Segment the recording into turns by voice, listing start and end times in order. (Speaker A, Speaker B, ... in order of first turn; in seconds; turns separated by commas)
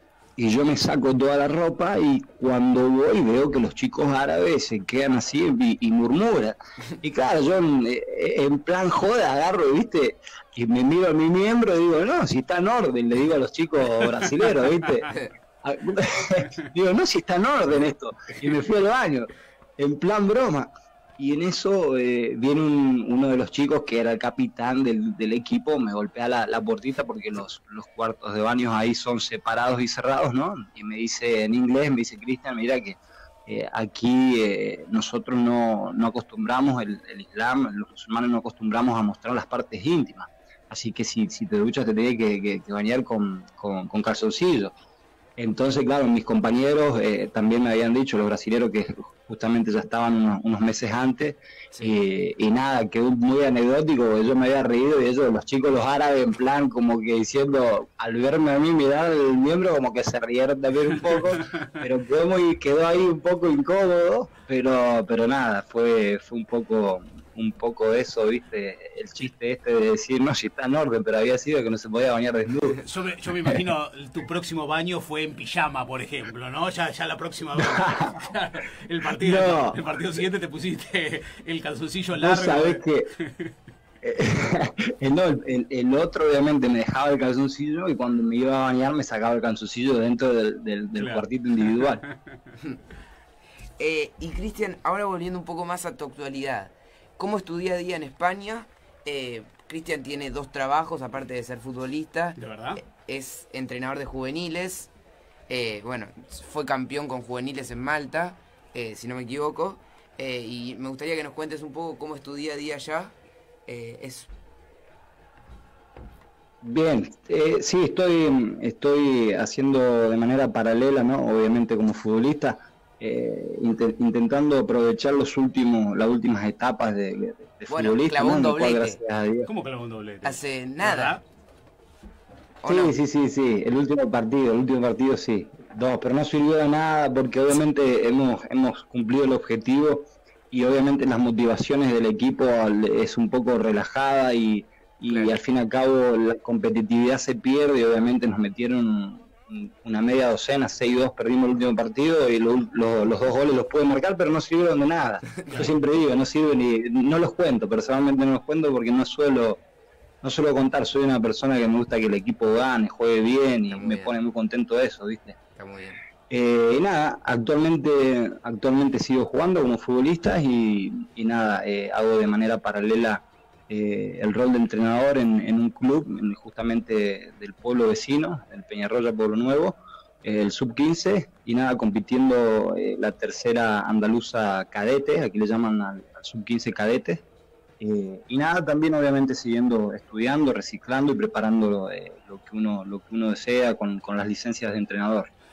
Speaker A: 0.4-44.7, Speaker A: 45.4-72.8, Speaker B: 51.7-52.0, Speaker C: 72.8-83.5, Speaker A: 77.6-78.1, Speaker A: 79.2-79.8, Speaker A: 82.2-83.1, Speaker A: 84.0-92.0, Speaker C: 91.0-92.2, Speaker B: 93.8-104.9, Speaker C: 102.4-102.8, Speaker B: 105.5-113.2, Speaker B: 113.7-114.3, Speaker A: 116.6-129.5, Speaker B: 127.7-129.0, Speaker C: 129.4-131.2, Speaker B: 130.2-131.2, Speaker B: 132.6-132.9, Speaker A: 132.7-159.6, Speaker B: 145.1-145.4, Speaker C: 155.5-155.7, Speaker A: 160.2-165.4, Speaker B: 163.7-164.1, Speaker B: 165.6-166.0, Speaker A: 166.3-187.2, Speaker A: 187.8-195.3